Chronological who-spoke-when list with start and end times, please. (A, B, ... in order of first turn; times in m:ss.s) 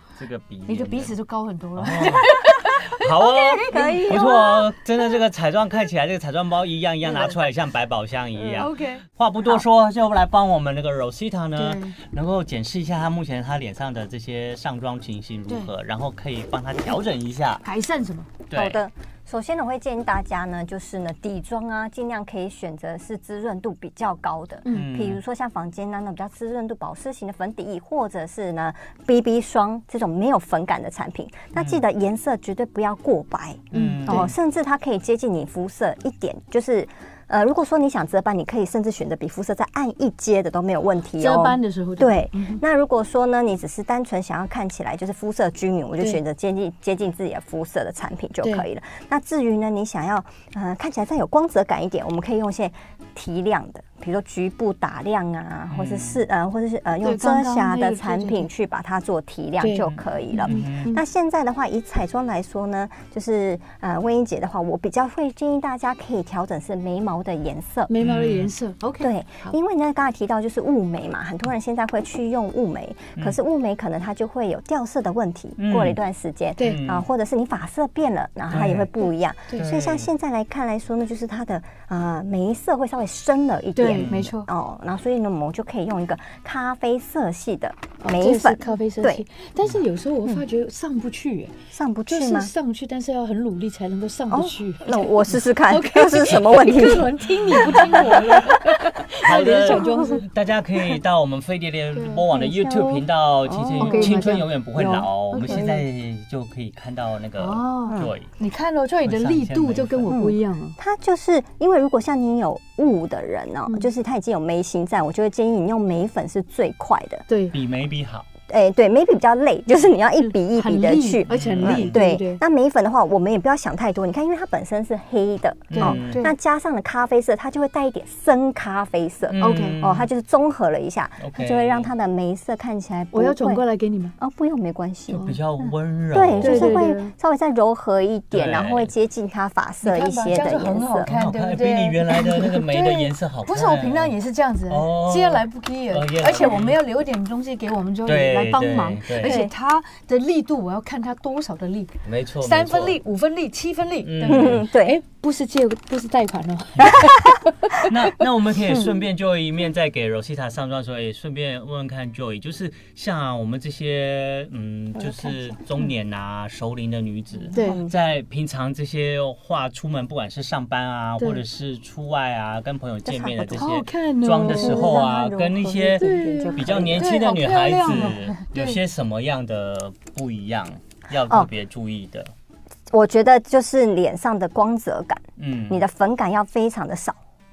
0:00.2-0:01.1 A
0:00.7-0:04.3 B
0:01.8-0:17.6 A
0:03.3-0:04.7 C
0:08.4-0:08.7 C
0:08.6-0:09.0 B
0:11.6-0:12.0 B
0:17.6-0:18.3 B
0:18.5-0:18.8 A
0:18.5-1:07.9 C
0:24.6-0:24.9 B
0:24.7-0:25.2 A
0:31.6-0:31.8 A
0:33.7-0:34.3 B
0:33.7-0:34.3 A
0:41.2-0:42.6 B
0:55.7-0:56.2 A
0:57.0-0:58.4 B
0:59.6-1:01.0 B
0:59.9-1:00.9 A
1:07.9-1:09.5 B
1:08.0-1:08.5 A
1:09.0-1:29.2 C
1:15.6-1:16.0 A
1:16.6-1:16.8 B
1:16.6-1:17.1 A
1:18.5-1:18.9 A
1:19.6-1:20.1 A
1:23.7-1:24.5 B
1:23.9-1:24.3 A
1:28.0-1:31.5 B
1:31.7-1:32.5 C
1:32.1-1:40.2 B
1:34.3-1:38.6 C
1:37.5-1:38.6 A
1:39.2-1:48.3 A
1:39.6-1:40.1 C
1:41.9-1:43.0 B
1:43.4-1:44.4 C
1:43.8-1:45.8 B
1:47.4-1:50.8 B
1:49.0-1:50.1 A
1:50.1-1:57.2 C
1:57.3-1:57.5 B
1:57.5-1:58.3 A
1:58.5-2:13.6 C
2:00.2-2:02.4 B
2:01.3-2:02.0 A
2:05.7-2:06.2 A
2:05.8-2:06.3 B
2:09.3-2:10.1 A
2:09.4-2:09.8 B
2:11.2-2:11.9 A
2:13.1-2:14.1 B
2:14.2-2:15.2 C
2:15.1-2:15.4 B
2:15.2-2:16.8 A
2:16.1-2:21.1 C
2:16.4-2:17.1 B
2:18.3-2:18.9 A
2:19.8-2:37.9 B
2:21.0-2:24.1 A
2:24.7-2:26.8 A
2:28.0-2:29.4 A
2:29.2-2:29.5 C
2:32.0-2:33.0 A
2:34.0-2:34.7 A
2:34.2-2:35.0 C
2:37.0-2:37.3 C
2:37.8-3:02.3 A
2:47.5-2:47.9 C
2:47.5-2:47.8 B
2:53.0-2:53.7 C
2:53.6-2:55.0 B
2:54.5-2:57.2 C
2:56.0-2:58.8 B
2:57.9-2:58.1 C
3:02.9-3:07.2 C
3:05.4-3:05.8 A